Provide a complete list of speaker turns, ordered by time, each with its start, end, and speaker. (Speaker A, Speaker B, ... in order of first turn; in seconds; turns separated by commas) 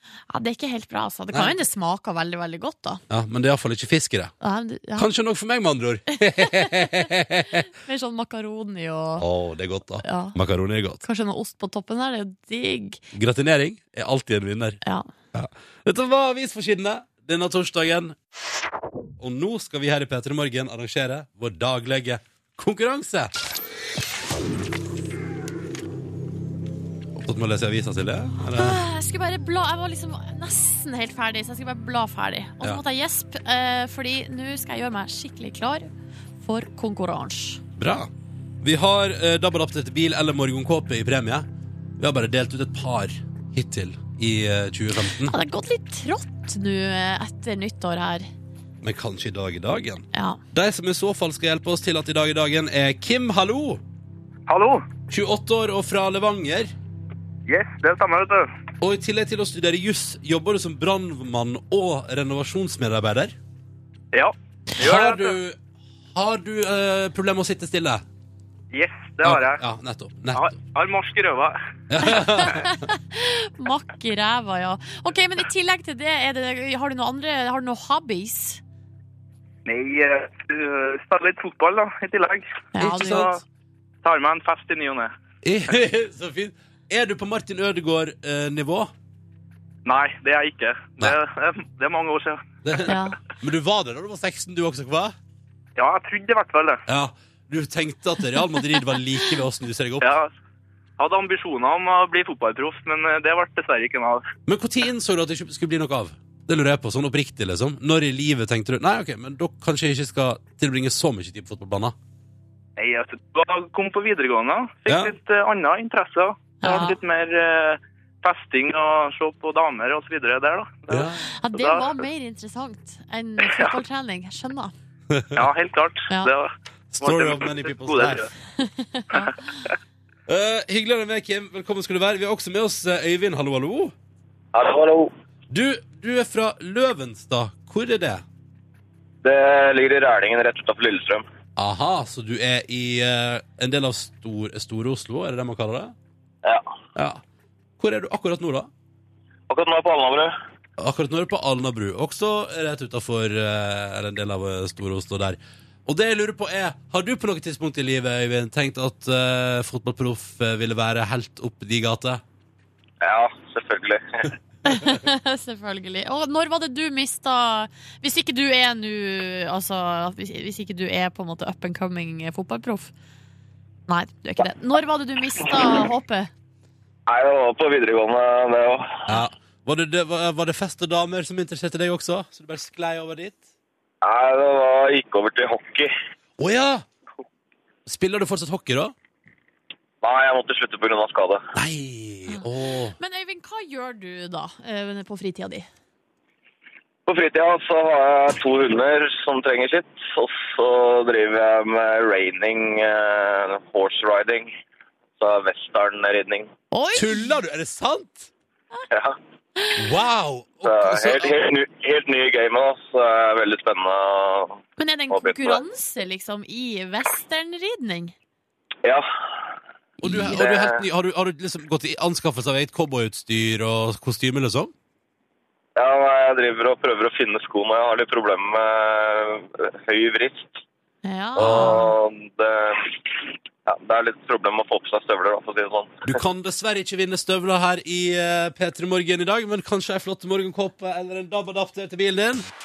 Speaker A: 0.3-3.0, Speaker B: 3.1-4.3, Speaker A: 4.4-5.1, Speaker B: 5.0-7.7, Speaker A: 6.4-6.9, Speaker A: 7.7-9.2, Speaker B: 9.2-11.0, Speaker A: 10.0-10.4, Speaker A: 11.0-13.0, Speaker B: 13.1-14.8, Speaker A: 14.8-15.1, Speaker B: 15.3-18.2, Speaker B: 19.2-23.3, Speaker B: 27.2-28.8, Speaker A: 28.5-35.9, Speaker A: 36.4-37.6, Speaker B: 37.8-38.1, Speaker B: 38.6-41.5, Speaker B: 42.0-45.4, Speaker A: 45.2-48.3, Speaker B: 48.8-53.8, Speaker A: 50.1-50.4, Speaker C: 54.5-54.8, Speaker B: 55.1-56.7, Speaker C: 57.5-58.5, Speaker B: 58.8-63.4, Speaker C: 64.1-65.3, Speaker B: 64.8-65.6, Speaker B: 66.1-68.0, Speaker C: 68.7-69.6, Speaker B: 69.2-70.5, Speaker C: 70.3-71.5, Speaker B: 71.9-72.7, Speaker A: 72.0-78.6, Speaker C: 79.7-83.4, Speaker A: 82.7-83.3, Speaker B: 82.8-83.4, Speaker C: 84.0-85.1, Speaker B: 85.4-88.9, Speaker C: 89.8-92.4, Speaker B: 92.6-95.2, Speaker A: 92.9-93.2, Speaker C: 95.8-96.8, Speaker B: 96.9-100.2, Speaker C: 100.0-100.3, Speaker C: 101.0-104.2, Speaker B: 104.5-112.0, Speaker C: 112.8-121.8, Speaker B: 114.9-115.1, Speaker A: 116.6-117.0, Speaker B: 120.9-121.2, Speaker A: 121.4-124.7, Speaker B: 125.1-125.4, Speaker C: 125.3-128.3, Speaker B: 126.9-128.3, Speaker A: 128.6-129.5, Speaker B: 130.3-133.9, Speaker D: 134.5-135.1, Speaker B: 135.5-138.2, Speaker D: 139.2-141.2, Speaker B: 141.6-145.9, Speaker B: 146.9-147.2, Speaker B: 147.8-148.7, Speaker D: 149.5-150.3, Speaker B: 150.8-162.2, Speaker D: 163.0-164.3, Speaker A: 164.6-172.9, Speaker A: 173.9-176.3, Speaker D: 177.1-179.0, Speaker B: 179.1-183.4, Speaker D: 184.0-185.9, Speaker B: 186.4-186.8, Speaker B: 187.8-188.9, Speaker D: 190.0-191.4, Speaker B: 191.5-192.9, Speaker A: 193.0-195.7, Speaker D: 197.1-204.5, Speaker D: 205.2-206.5, Speaker A: 206.7-207.3, Speaker B: 206.9-208.3, Speaker A: 209.6-209.9, Speaker B: 209.8-211.3, Speaker D: 210.6-215.6, Speaker A: 214.8-218.1, Speaker B: 220.0-224.7, Speaker D: 220.1-220.8, Speaker D: 225.8-230.4, Speaker A: 231.0-231.9, Speaker D: 231.3-233.0, Speaker D: 233.7-236.0, Speaker B: 236.0-242.4